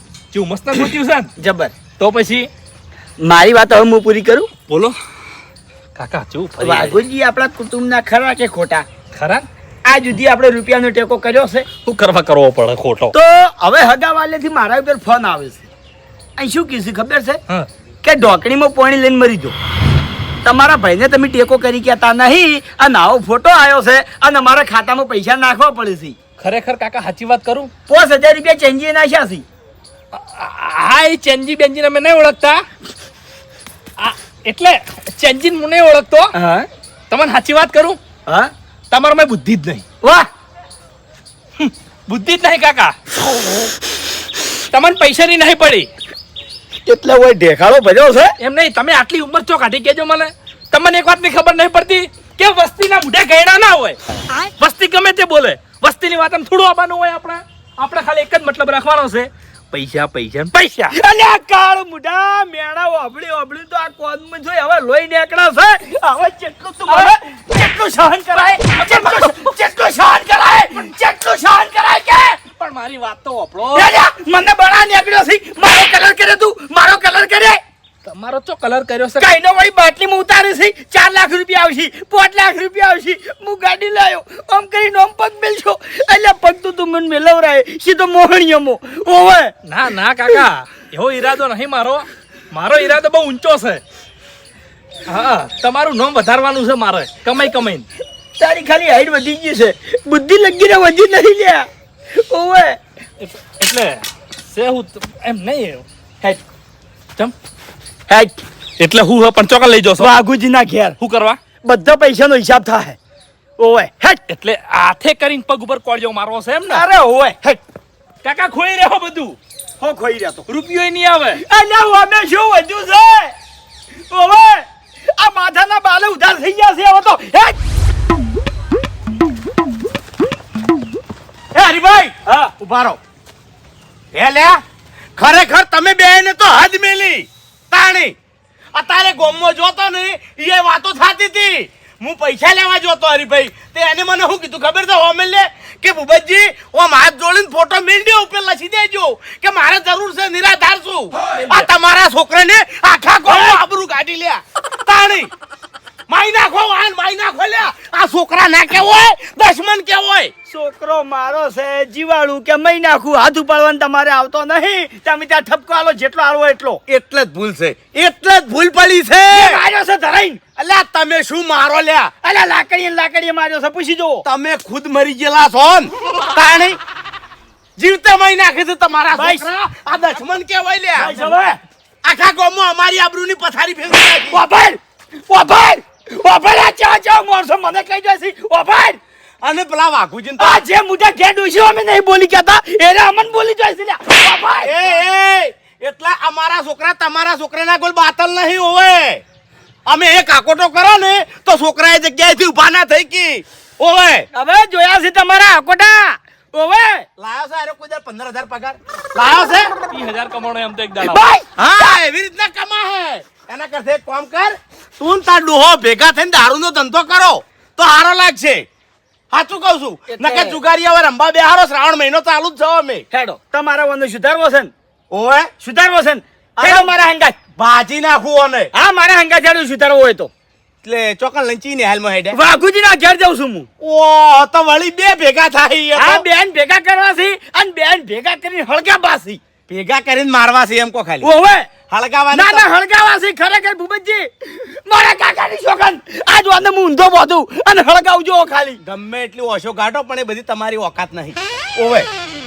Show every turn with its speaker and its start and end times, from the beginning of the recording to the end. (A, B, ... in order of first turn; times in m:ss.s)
0:00.3-0:01.3 A
0:01.4-0:01.7 B
0:02.0-0:02.5 A
0:03.2-0:04.5 B
0:04.7-0:05.0 A
0:06.0-0:07.0 A
0:06.6-0:08.9 B
0:09.1-0:09.5 A
0:09.8-0:11.7 B
0:11.8-0:13.1 A
0:13.1-0:15.7 B
0:16.4-0:17.4 B
0:18.0-0:19.6 B
0:20.4-0:26.2 B
0:26.4-0:27.7 A
0:27.9-0:29.4 B
0:30.1-0:32.6 A
0:34.0-0:36.3 A
0:36.3-0:36.7 B
0:37.1-0:38.0 A
0:38.3-0:38.5 B
0:38.9-0:39.8 A
0:40.0-0:40.3 B
0:41.6-0:43.0 A
0:44.7-0:45.9 A
0:46.8-0:48.3 B
0:48.4-0:54.0 A
0:54.6-1:00.9 A
1:00.9-1:12.4 B
1:06.9-1:07.2 A
1:08.3-1:09.5 A
1:12.5-1:13.9 A
1:13.7-1:17.6 B
1:18.0-1:19.4 A
1:19.2-1:29.5 B
1:29.6-1:33.8 A
1:35.1-1:37.9 A
1:38.4-1:42.8 B
1:43.2-1:45.8 A
1:48.1-1:48.4 B
1:48.8-1:50.2 A
1:50.0-1:51.0 B
1:51.0-1:51.4 A
1:51.6-1:53.0 B
1:53.6-1:54.2 B
1:54.3-1:56.8 A
1:56.7-1:57.6 B
1:58.2-1:59.4 A
1:59.8-2:00.4 B
2:00.5-2:01.4 A
2:01.3-2:03.3 B
2:04.1-2:07.6 B
2:11.5-2:13.0 C
2:12.2-2:12.5 B
2:14.1-2:14.6 C
2:15.2-2:18.1 C
2:18.7-2:35.3 C
2:31.4-2:31.7 A
2:33.2-2:33.6 B
2:36.1-2:40.3 C
2:40.4-2:46.8 B
2:46.9-2:49.6 C
2:49.3-2:50.4 B
2:50.6-2:52.1 C
2:52.2-2:54.2 B
2:54.2-2:56.8 C
2:57.8-3:01.3 C
2:59.1-2:59.5 B
3:01.0-3:01.6 B
3:02.0-3:04.4 C
3:04.3-3:09.0 B
3:09.4-3:10.6 C
3:10.4-3:15.0 B
3:14.6-3:19.2 C
3:19.9-3:24.3 C
3:24.3-3:27.0 B
3:27.2-3:29.7 C
3:29.9-3:31.2 A
3:31.0-3:32.0 B
3:31.6-3:38.6 C
3:39.3-3:43.0 C
3:40.1-3:40.6 B
3:43.1-3:44.7 B
3:45.1-3:45.5 C
3:45.6-3:47.4 B
3:46.6-3:46.9 C
3:47.6-3:48.7 C
3:48.7-3:50.3 B
3:50.8-3:52.4 C
3:52.3-3:53.7 B
3:53.8-3:56.2 C
3:55.9-3:59.4 B
3:59.7-4:01.3 C
4:01.2-4:01.7 B
4:01.9-4:02.6 C
4:02.3-4:08.8 B
4:08.8-4:12.1 C